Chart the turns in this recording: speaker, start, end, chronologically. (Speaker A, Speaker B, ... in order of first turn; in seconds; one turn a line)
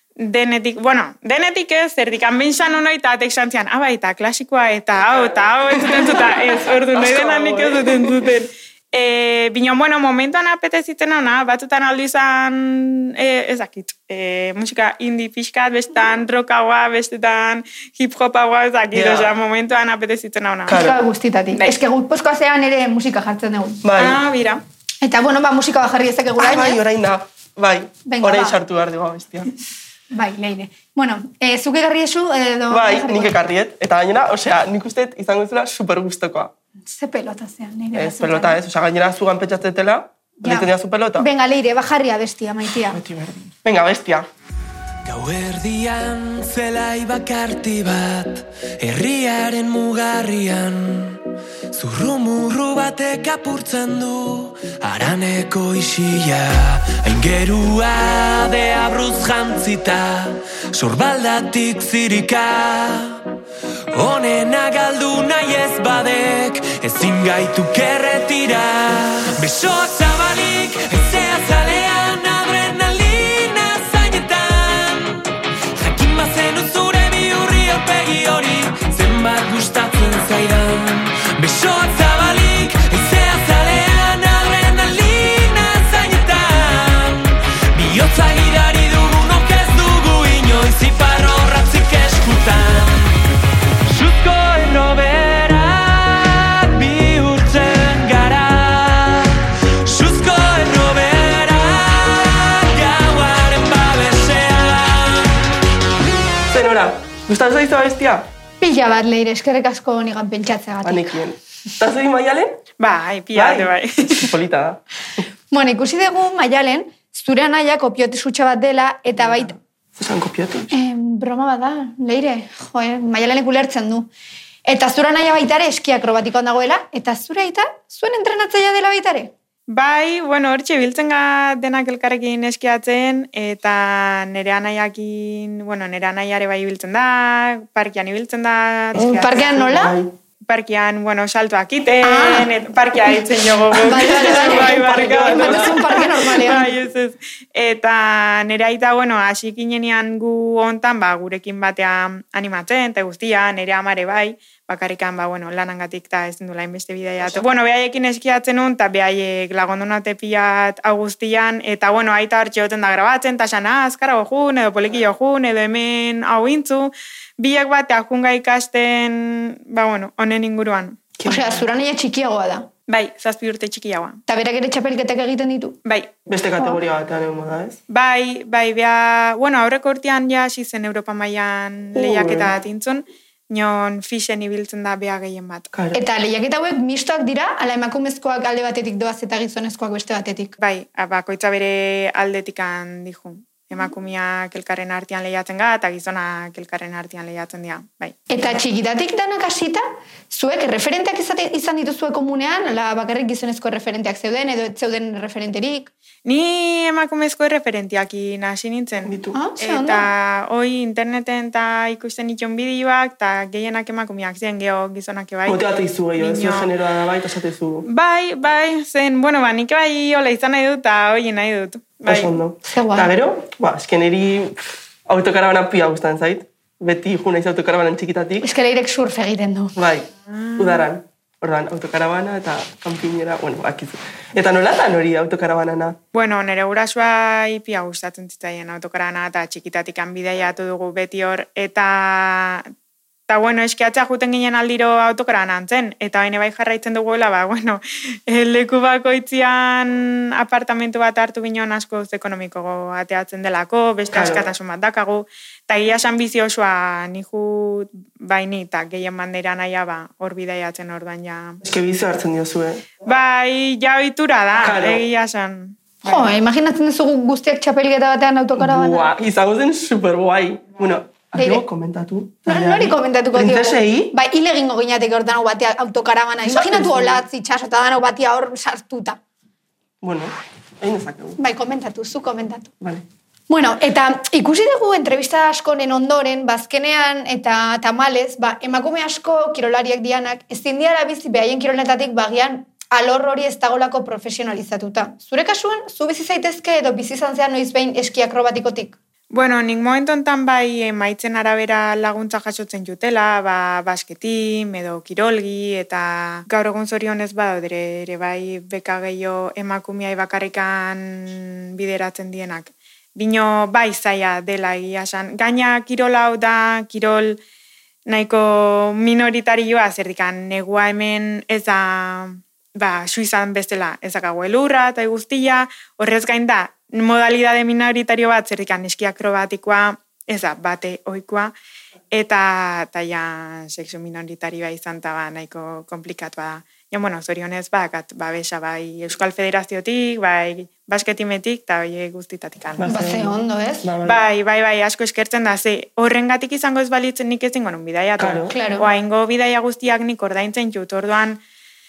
Speaker A: 0.2-20.9
Speaker B: 5.8-8.2
Speaker B: 18.9-19.3
Speaker B: 20.7-21.0
Speaker C: 20.7-23.8
Speaker B: 23.8-24.2
Speaker A: 24.0-24.6
Speaker C: 25.0-26.8
Speaker B: 26.4-29.5
Speaker C: 28.1-28.6
Speaker C: 30.1-33.4
Speaker B: 32.7-36.5
Speaker C: 36.9-38.6
Speaker B: 37.9-41.3
Speaker C: 40.4-43.0
Speaker B: 42.9-44.3
Speaker D: 45.1-51.2
Speaker D: 51.7-63.2
Speaker D: 64.0-75.2
Speaker D: 75.8-93.1
Speaker D: 93.9-99.3
Speaker D: 99.9-105.2
Speaker B: 106.5-108.3
Speaker C: 108.6-111.2
Speaker B: 110.8-112.6
Speaker A: 112.8-114.3
Speaker B: 113.3-114.8
Speaker C: 115.5-119.6
Speaker B: 119.2-120.7
Speaker C: 120.7-124.1
Speaker C: 124.7-129.3
Speaker A: 129.7-139.7
Speaker C: 139.0-140.0
Speaker B: 139.1-140.1
Speaker A: 140.4-171.0
Speaker C: 142.0-142.5
Speaker B: 143.7-146.0
Speaker C: 143.8-146.8
Speaker B: 171.2-171.5
Speaker C: 171.2-172.7
Speaker A: 172.9-174.2
Speaker C: 174.3-175.8
Speaker A: 175.8-176.1
Speaker B: 176.3-177.8
Speaker A: 177.9-185.7
Speaker B: 181.9-182.5
Speaker B: 185.7-186.0
Speaker C: 185.9-190.6
Speaker A: 190.6-198.2
Speaker C: 198.3-205.9
Speaker A: 206.2-215.7
Speaker B: 209.1-209.3
Speaker C: 209.3-210.1
Speaker B: 215.5-217.9
Speaker A: 216.2-216.7
Speaker A: 217.9-222.4
Speaker B: 222.1-228.5
Speaker C: 222.7-223.1
Speaker C: 228.4-229.8
Speaker B: 229.8-236.0
Speaker A: 230.3-230.9
Speaker A: 236.1-242.7
Speaker A: 243.3-261.6
Speaker B: 254.1-254.5
Speaker B: 261.6-262.9
Speaker A: 263.0-266.3
Speaker B: 264.6-265.0
Speaker C: 266.1-269.1
Speaker B: 268.6-274.1
Speaker C: 271.4-271.6
Speaker C: 272.5-279.2
Speaker B: 276.4-277.2
Speaker B: 280.0-281.4
Speaker C: 281.4-282.7
Speaker C: 283.5-299.0
Speaker A: 299.3-317.4
Speaker A: 318.1-331.6
Speaker A: 332.1-342.9
Speaker B: 342.8-344.2
Speaker C: 342.9-343.9
Speaker A: 344.0-351.4
Speaker B: 348.2-348.5
Speaker C: 348.5-348.9